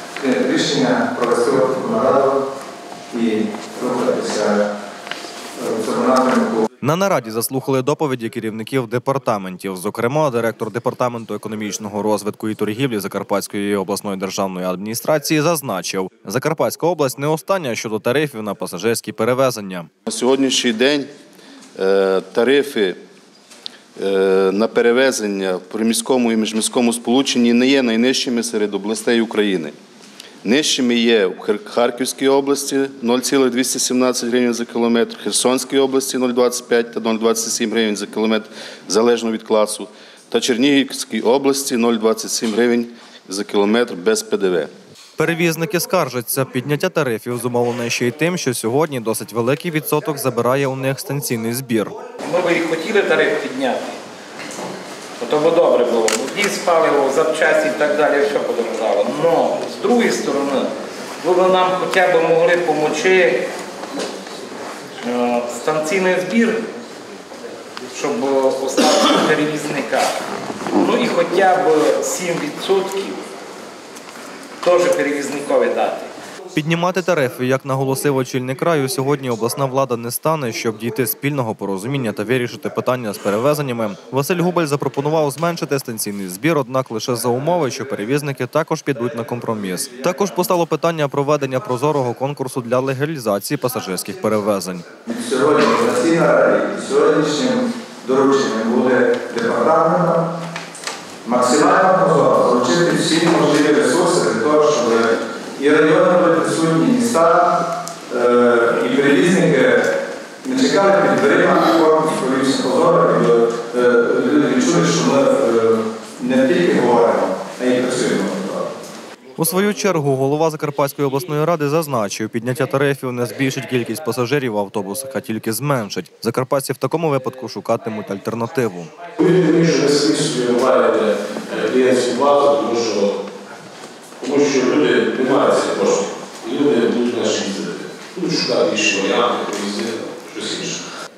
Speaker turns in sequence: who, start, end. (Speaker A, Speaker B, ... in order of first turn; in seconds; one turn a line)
Speaker A: 0.2-2.4
Speaker A: 3.1-4.6
Speaker A: 5.5-6.6
Speaker B: 6.8-19.9
Speaker C: 20.1-21.1
Speaker C: 21.8-23.0
Speaker C: 24.0-29.7
Speaker C: 30.4-44.7
Speaker B: 45.2-52.0
Speaker D: 52.2-54.0
Speaker D: 55.2-60.7
Speaker D: 61.2-63.5
Speaker D: 65.0-66.6
Speaker D: 67.9-70.1
Speaker D: 70.7-73.2
Speaker D: 74.6-76.1
Speaker B: 76.5-94.8
Speaker A: 95.1-100.2
Speaker A: 101.2-109.8
Speaker A: 110.4-118.7
Speaker B: 119.4-128.9
Speaker E: 129.2-133.2
Speaker E: 134.2-140.8